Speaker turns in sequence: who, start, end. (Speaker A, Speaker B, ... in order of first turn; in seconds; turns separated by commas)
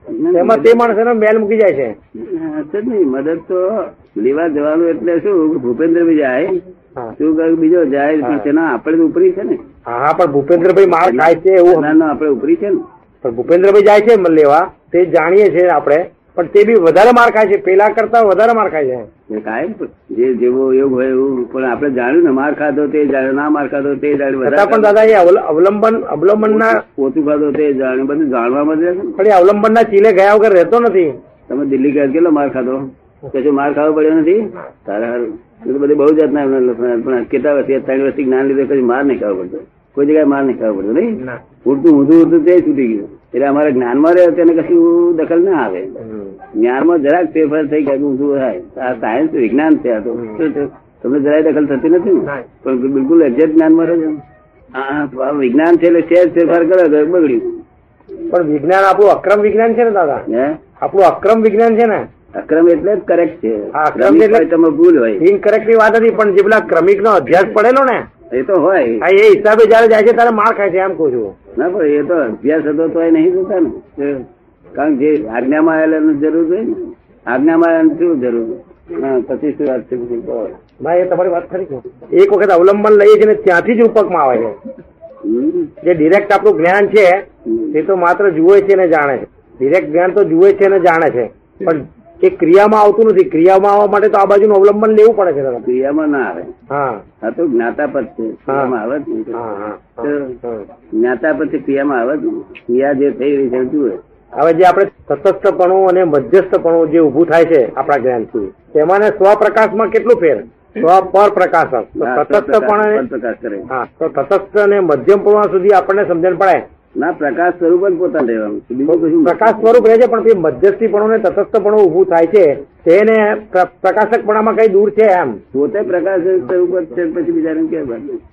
Speaker A: 0.1-0.9, Speaker B: 0.3-1.9, Speaker A: 2.2-6.6, Speaker A: 7.2-9.6, Speaker B: 9.9-11.9, Speaker A: 10.6-12.8, Speaker B: 13.2-19.1, Speaker A: 19.3-25.1, Speaker B: 24.4-26.8, Speaker A: 26.4-29.2, Speaker B: 29.2-31.1, Speaker A: 31.5-46.0, Speaker B: 46.0-46.3, Speaker A: 46.5-54.2, Speaker A: 54.7-57.6, Speaker B: 58.3-60.2, Speaker A: 60.3-60.6, Speaker B: 60.8-62.0, Speaker A: 62.4-65.2, Speaker B: 63.7-64.5, Speaker B: 65.2-68.0, Speaker A: 68.3-69.0, Speaker B: 69.0-71.3, Speaker A: 71.5-80.5, Speaker B: 80.8-84.6, Speaker A: 85.2-85.7, Speaker B: 85.8-95.7, Speaker A: 87.5-87.7, Speaker A: 95.6-96.5, Speaker B: 96.7-97.0, Speaker A: 97.2-99.4, Speaker B: 98.5-98.7, Speaker B: 99.3-100.7, Speaker A: 100.0-100.4, Speaker A: 101.0-104.0, Speaker B: 104.4-113.0, Speaker A: 112.0-113.7, Speaker B: 113.7-116.6, Speaker A: 117.0-119.9, Speaker B: 118.9-125.4, Speaker A: 125.5-128.2